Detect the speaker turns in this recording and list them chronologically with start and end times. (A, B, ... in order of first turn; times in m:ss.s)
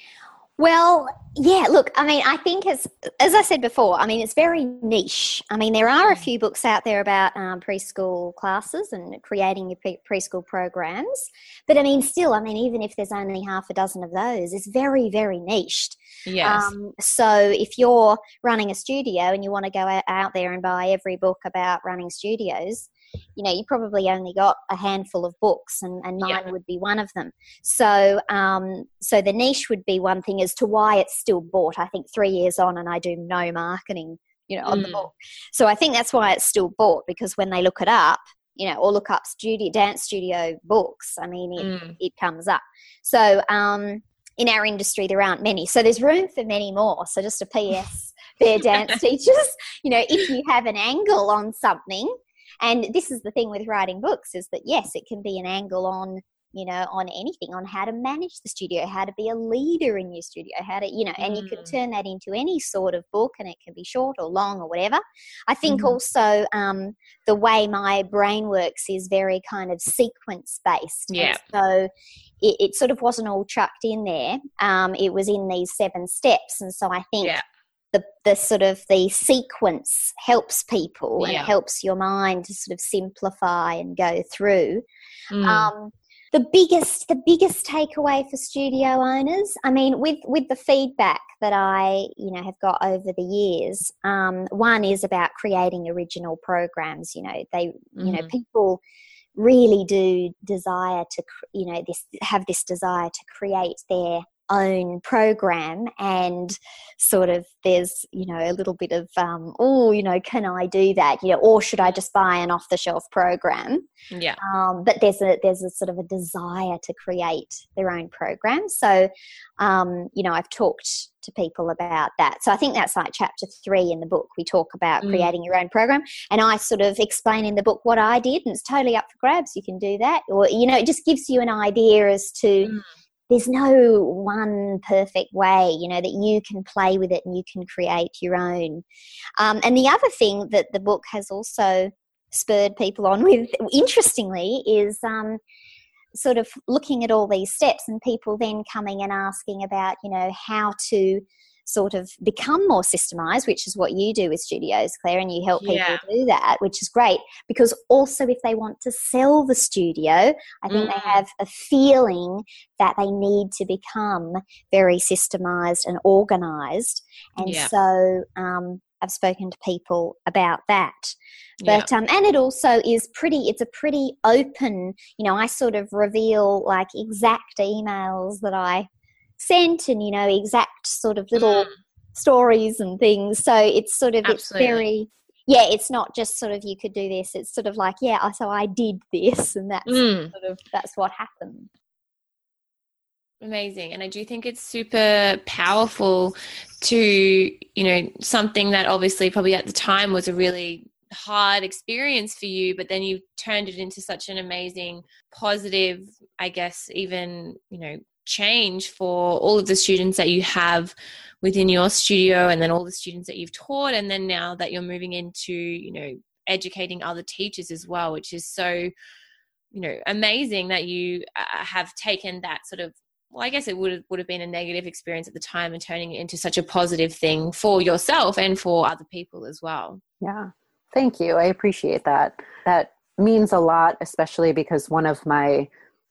0:00.6-1:11.9 A
0:16.2-0:16.7 B
0:26.2-0:26.5 B
0:34.6-0:35.1 B
0:41.6-0:41.9 B
1:01.2-1:01.7 B
1:05.7-1:06.0 B
1:11.1-1:11.4 B
1:12.4-1:17.4 A
1:17.9-1:24.8 A
1:21.2-1:21.5 B
1:25.3-1:25.7 B
1:25.4-1:38.8 A
1:38.0-1:38.3 B
1:39.4-1:53.8 A
1:54.1-1:54.4 B
1:54.4-2:12.7 A
2:05.0-2:05.3 B
2:13.3-2:18.8 A
2:19.4-2:25.4 A
2:26.1-2:51.1 A
2:35.6-2:36.0 B
2:40.7-2:41.2 B
2:47.4-2:47.7 B
2:51.6-2:51.9 B
2:51.6-2:58.9 A
2:59.4-3:11.7 A
3:01.4-3:01.7 B
3:04.2-3:04.8 B
3:09.8-3:10.3 B
3:13.4-3:38.9 B
3:39.7-3:50.0 B
3:50.2-3:55.7 C